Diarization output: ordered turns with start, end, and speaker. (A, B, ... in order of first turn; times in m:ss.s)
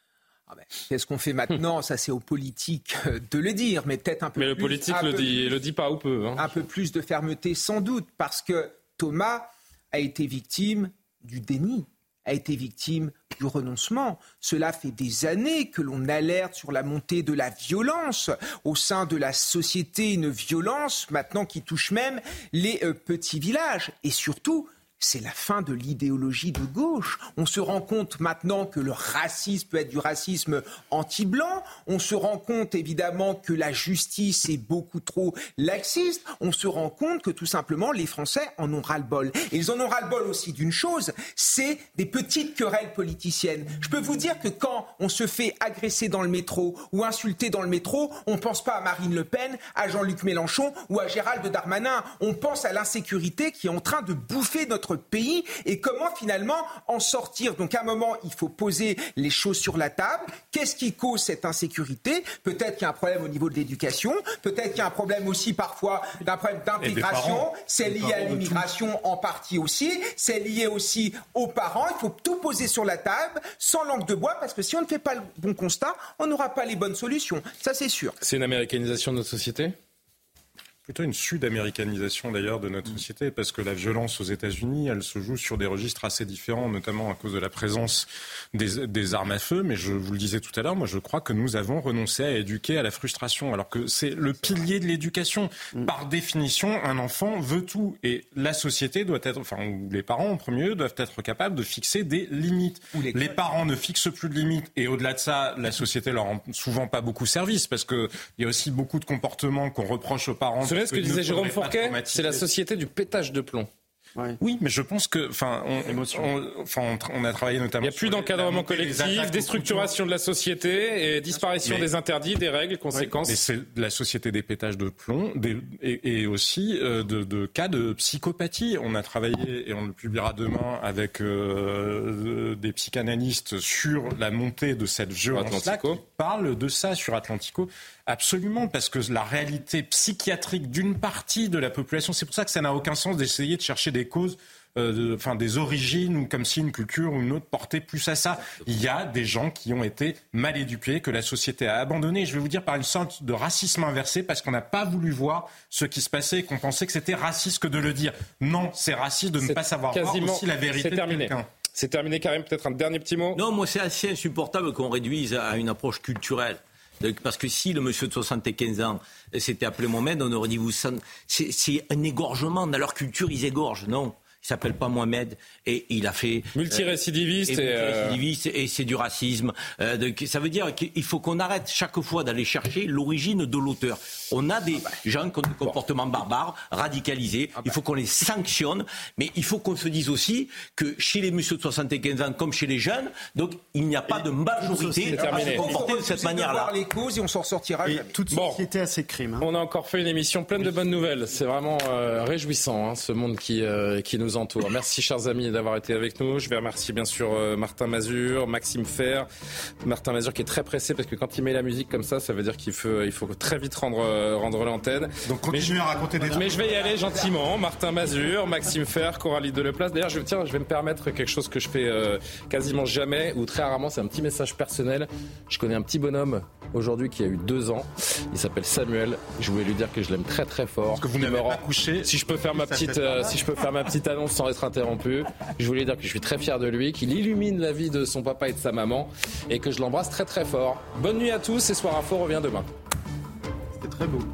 0:00.5-0:05.6 A
0:04.4-0:06.5 B
0:06.4-1:18.2 A
1:06.8-1:08.7 C
1:18.2-1:19.8 B
1:20.9-1:52.4 C
1:42.9-1:43.4 A
1:50.6-1:53.7 B
1:54.4-1:59.9 C
1:55.8-1:56.3 D
1:57.8-2:03.4 B
2:03.2-2:41.5 C
2:15.3-2:16.0 B
2:39.4-2:43.4 B
2:43.4-2:56.9 E
2:56.6-2:58.2 B
2:57.5-3:16.7 E
3:14.1-3:16.0 D
3:15.1-3:15.8 B
3:15.2-3:18.2 A
3:17.8-3:19.5 D
3:18.3-3:18.6 B
3:19.4-3:29.3 B
3:29.8-4:02.7 B
3:35.2-3:36.6 C
3:36.2-3:37.4 A
3:50.9-3:53.0 C